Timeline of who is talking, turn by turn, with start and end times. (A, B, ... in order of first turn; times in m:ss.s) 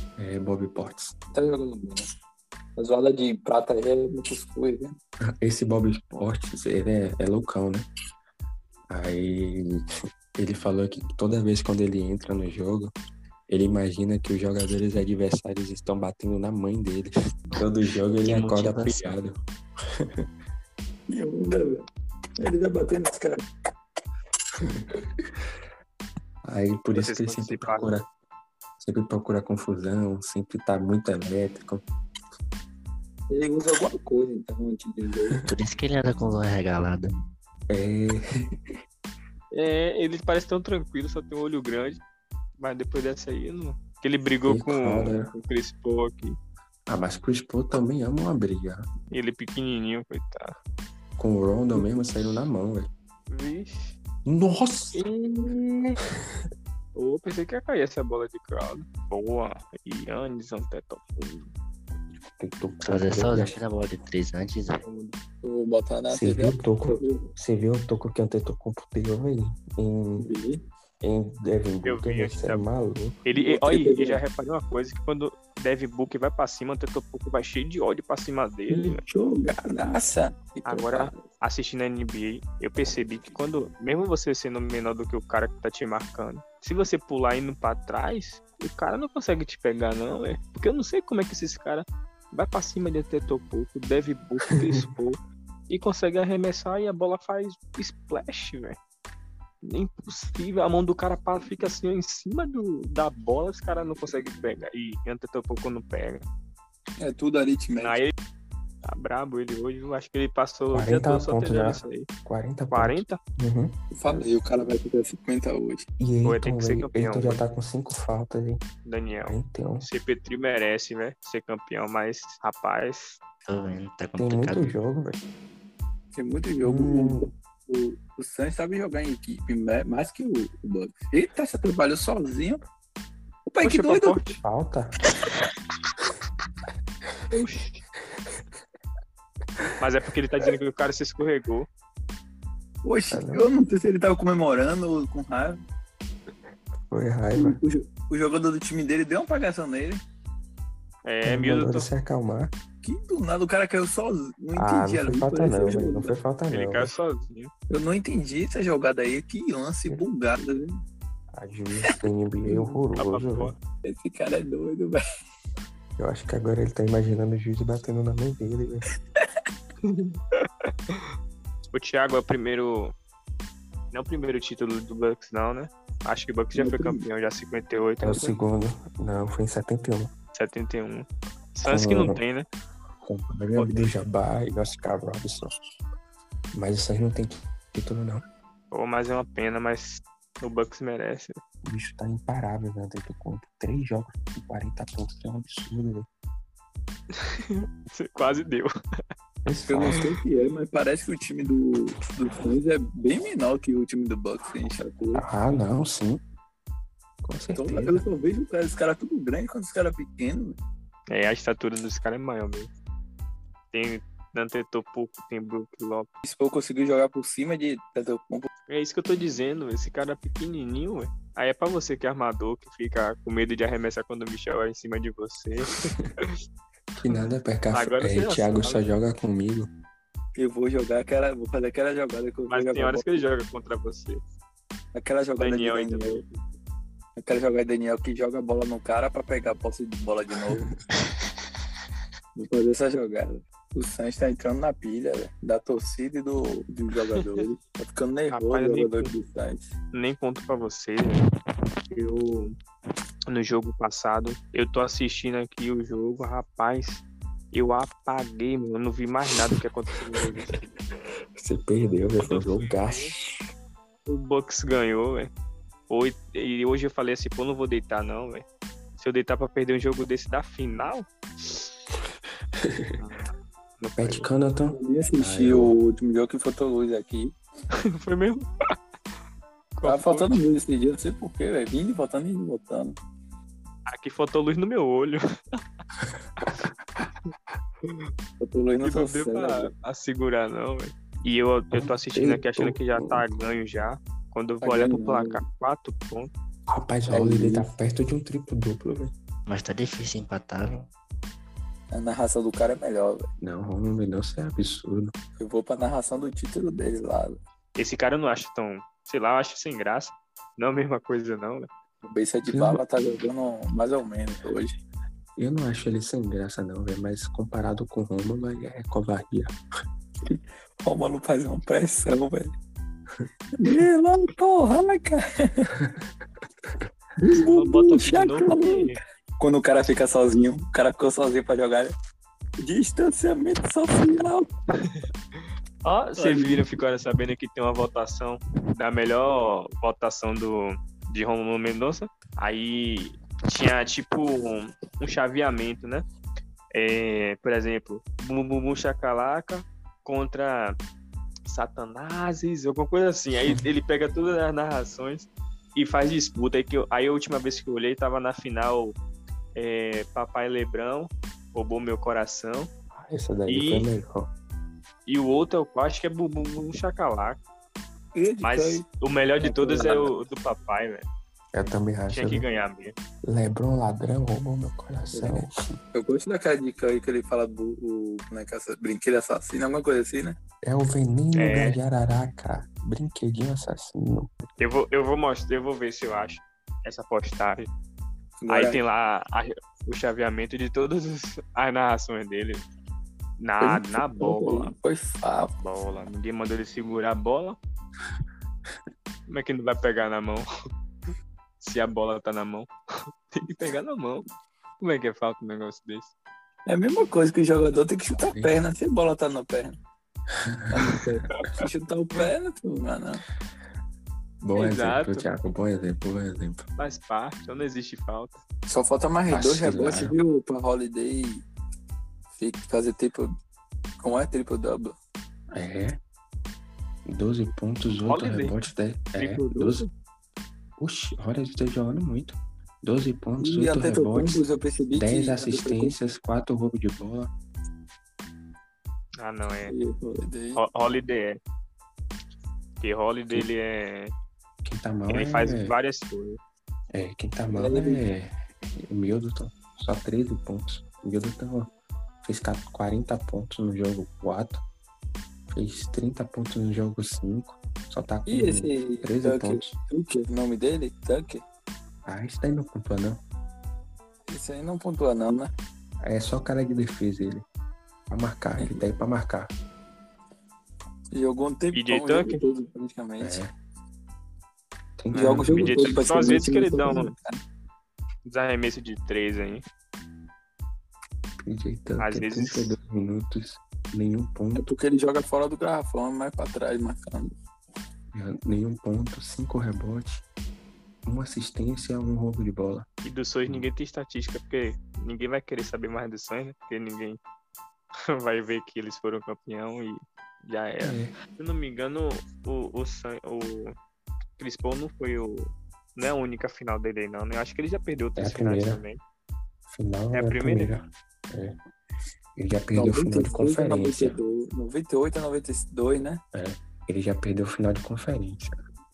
0:00.2-0:01.2 A
0:01.3-0:02.1 B
0:02.8-0:05.0 B
0:05.4-0:07.9 A
0:08.9-0:09.8 A
0:10.4-0:13.0 A
0:13.5-0:19.4 A
0:18.2-0:19.2 C
0:20.0-0:20.2 A
0:21.1-0:21.8 B
0:22.4-0:23.4 B
0:26.4-0:28.1 A
0:26.9-0:27.9 D
0:28.8-0:31.8 A
0:33.3-0:35.4 B
0:35.4-0:37.1 C
0:37.7-0:38.7 A
0:39.5-0:42.0 D
0:42.6-0:46.4 D
0:44.4-0:45.3 A
0:46.9-0:48.9 A
0:49.1-0:50.6 D
0:51.2-0:52.9 A
0:53.3-0:54.0 D
0:54.2-0:55.0 A
0:54.9-0:56.0 D
0:57.0-1:01.5 D
1:02.3-1:03.6 A
1:02.8-1:04.9 C
1:04.8-1:05.2 D
1:05.4-1:07.3 B
1:06.1-1:10.3 A
1:10.2-1:10.6 B
1:11.0-1:13.2 A
1:11.8-1:12.7 D
1:13.2-1:19.0 D
1:13.4-1:14.2 B
1:18.7-1:21.2 B
1:20.7-1:38.8 D
1:39.6-1:46.2 D
1:47.0-1:48.0 B
1:47.8-1:48.1 D
1:48.8-1:52.1 D
1:50.7-1:54.3 A
1:52.7-1:53.2 D
1:53.9-1:55.9 B
1:56.0-1:58.6 A
1:56.2-1:57.4 D
1:58.8-2:03.2 D
1:59.3-1:59.9 A
2:03.5-2:04.7 C
2:04.2-2:05.2 A
2:06.1-2:12.6 B
2:06.6-2:07.3 A
2:13.5-2:14.2 B
2:13.6-2:14.4 D
2:14.4-2:14.9 A
2:17.3-2:17.8 D
2:19.8-2:21.7 D
2:22.8-2:25.6 B
2:23.1-2:23.5 A
2:26.9-2:27.6 A
2:27.4-2:30.0 B
2:31.0-2:31.9 D
2:31.2-2:32.5 A
2:32.8-2:36.2 B
2:34.6-2:36.9 A
2:36.5-2:37.5 D
2:37.7-2:40.8 B
2:41.3-2:43.5 A
2:42.5-2:42.8 B
2:43.0-2:43.6 D
2:43.8-2:45.0 B
2:46.0-2:48.9 A
2:49.8-2:51.1 D
2:51.7-2:52.9 D
2:53.9-2:58.4 D
2:56.6-2:57.0 B
2:58.0-3:00.1 A
3:00.3-3:02.5 D
3:01.7-3:02.2 A
3:03.0-3:05.5 A
3:03.6-3:03.9 D
3:06.5-3:08.2 A
3:08.7-3:11.4 D
3:11.6-3:16.1 A
3:17.2-3:18.7 D
3:19.4-3:20.0 A
3:19.7-3:25.3 B
3:25.2-3:26.2 A
3:27.2-3:28.0 A
3:27.6-3:30.6 B
3:31.1-3:32.7 D
3:33.7-3:36.1 D
3:36.2-3:38.5 B
3:38.7-3:46.4 D
3:47.0-3:49.7 A
3:47.7-3:48.8 D
3:50.4-3:53.2 B
3:52.5-3:54.2 D
3:54.9-3:56.2 B
3:55.4-3:56.4 D
3:57.2-4:00.8 B
4:02.4-4:09.7 B
4:08.3-4:09.2 D
4:09.9-4:11.2 D
4:11.9-4:12.6 D
4:13.3-4:20.7 D
4:21.4-4:23.5 A
4:22.2-4:23.1 D
4:24.1-4:25.3 D
4:25.9-4:28.5 D
4:29.0-4:31.7 D
4:32.6-4:32.9 A
4:33.0-4:33.3 D
4:33.8-4:34.3 D
4:34.0-4:35.8 A
4:34.7-4:37.3 B
4:37.7-4:38.5 D
4:39.8-4:40.4 D
4:39.8-4:43.0 B
4:43.9-4:45.6 D
4:46.4-4:46.7 D
4:48.4-4:49.7 B
4:48.8-4:56.3 D
4:51.7-4:53.3 A
4:54.6-4:55.4 B
4:56.7-4:59.1 A
4:57.1-4:57.7 B
4:59.5-5:00.9 C
5:01.9-5:03.3 B
5:03.4-5:05.1 A
5:05.4-5:07.4 B
5:07.8-5:11.7 D
5:12.0-5:14.8 B
5:12.5-5:12.8 A
5:15.4-5:19.5 A
5:20.3-5:22.5 B
5:23.6-5:25.7 B
5:27.2-5:31.9 B
5:27.4-5:29.0 D
5:32.6-5:34.5 B
5:34.8-5:35.0 D
5:35.8-5:46.0 D
5:36.2-5:36.6 B
5:46.7-5:50.8 D
5:51.5-5:59.0 D
5:59.6-6:02.7 D
6:02.9-6:04.3 A
6:03.5-6:03.9 D
6:05.1-6:07.4 D
6:08.2-6:08.9 B
6:08.4-6:11.1 D
6:09.4-6:10.1 B
6:11.5-6:12.5 A
6:12.1-6:13.0 D
6:13.2-6:15.5 A
6:15.1-6:20.4 B
6:20.6-6:24.3 A
6:21.4-6:21.8 D
6:24.6-6:27.7 D
6:28.4-6:28.8 B
6:28.5-6:32.6 D
6:33.4-6:34.7 D
6:33.6-6:35.5 B
6:35.6-6:37.6 D
6:39.3-6:40.5 D
6:41.6-6:42.7 D
6:43.3-6:44.2 D
6:44.8-6:46.1 D
6:46.7-6:49.8 B
6:48.2-6:48.5 A
6:50.7-6:53.2 B
6:54.4-6:56.6 A
6:54.6-6:55.3 D
6:56.8-6:58.4 D
6:58.7-7:01.5 B
6:59.3-7:00.2 A
7:02.4-7:03.3 B
7:04.0-7:05.0 B
7:05.5-7:06.0 A
7:07.1-7:09.9 A
7:08.1-7:08.6 D
7:09.2-7:09.9 D
7:10.8-7:14.4 A
7:13.4-7:16.0 B
7:15.0-7:17.3 A
7:19.2-7:19.8 D
7:19.7-7:20.6 B
7:20.6-7:21.4 D
7:22.8-7:24.1 D
7:24.6-7:25.8 A
7:25.1-7:26.4 D
7:26.9-7:31.7 A
7:27.5-7:28.0 B
7:32.2-7:34.6 A
7:35.5-7:39.8 A
7:38.3-7:41.4 B
7:42.0-7:43.2 A
7:44.3-7:45.5 B
7:46.0-7:47.4 A
7:48.1-7:49.5 A
7:51.1-7:53.4 B
7:51.7-7:52.4 D
7:53.2-7:53.5 A
7:55.0-7:56.0 A
7:55.1-7:57.1 D
7:55.2-7:57.4 B
7:58.3-7:59.6 D
8:01.4-8:04.7 A
8:02.0-8:02.8 D
8:04.6-8:07.3 B
8:08.1-8:10.2 A
8:11.1-8:12.9 A
8:13.0-8:17.2 D
8:18.1-8:23.8 D
8:20.8-8:21.2 A
8:24.4-8:29.0 D
8:28.2-8:28.8 A
8:29.7-8:31.6 A
8:30.1-8:30.7 D
8:32.4-8:34.2 A
8:32.8-8:36.2 B
8:36.3-8:38.6 A